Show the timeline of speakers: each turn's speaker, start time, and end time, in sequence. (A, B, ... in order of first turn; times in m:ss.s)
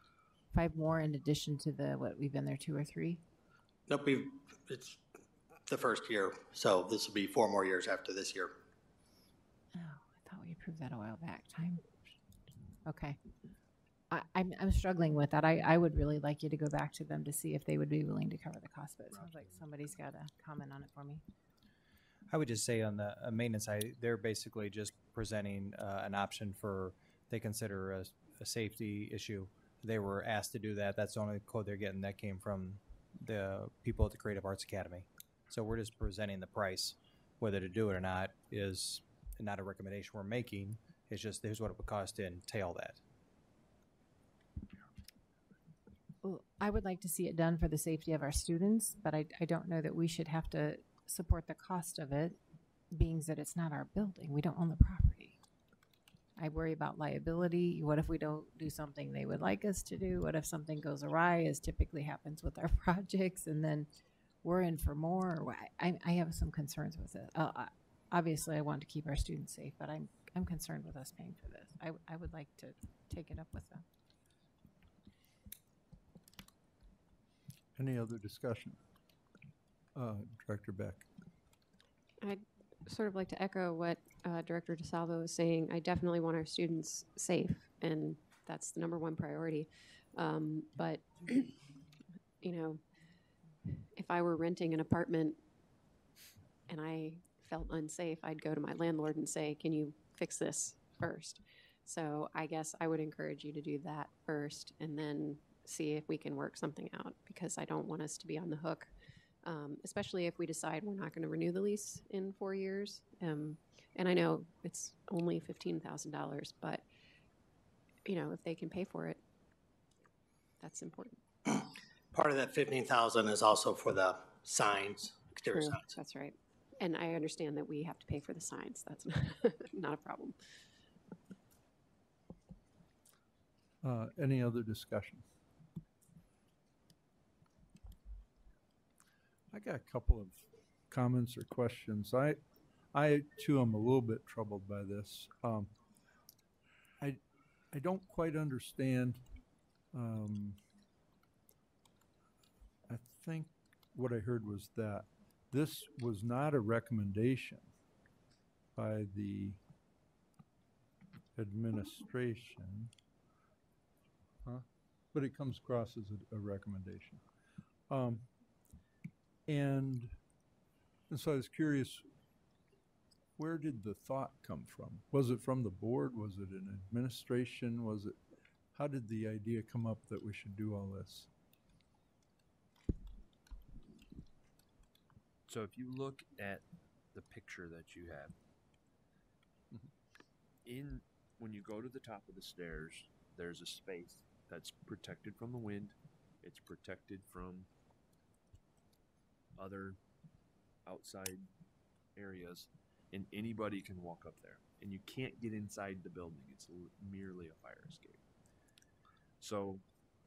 0:00.5-0:03.2 A
0:03.9-0:05.0 B
0:05.7-0:08.6 B
0:09.7-0:11.9 A
0:12.8-0:13.2 A
0:14.1-0:21.2 A
0:22.3-0:43.0 C
0:46.2-0:52.4 A
0:52.9-0:55.4 A
0:56.4-1:03.9 A
1:04.4-1:13.8 A
1:17.8-1:18.8 D
1:20.0-1:21.1 D
1:22.2-1:31.5 E
1:32.4-1:32.8 E
1:34.0-1:35.4 E
1:36.7-1:48.9 E
1:49.4-1:56.8 E
1:58.0-1:59.2 E
2:00.6-2:01.2 E
2:01.5-2:05.9 B
2:05.4-2:10.4 E
2:13.8-2:15.2 D
2:19.5-2:22.4 D
2:22.9-2:25.7 D
2:27.7-2:29.2 D
2:29.9-2:30.6 D
2:32.9-2:37.7 D
2:38.8-2:39.6 D
2:41.4-2:42.9 D
2:44.4-2:47.2 D
2:47.9-2:48.3 D
2:49.5-2:50.2 D
2:51.1-2:52.0 D
2:53.4-2:58.2 D
2:58.7-3:01.3 D
3:05.5-3:08.3 F
3:10.6-3:17.7 F
3:19.6-3:20.0 F
3:20.8-3:21.5 F
3:22.2-3:28.2 F
3:29.4-3:29.8 F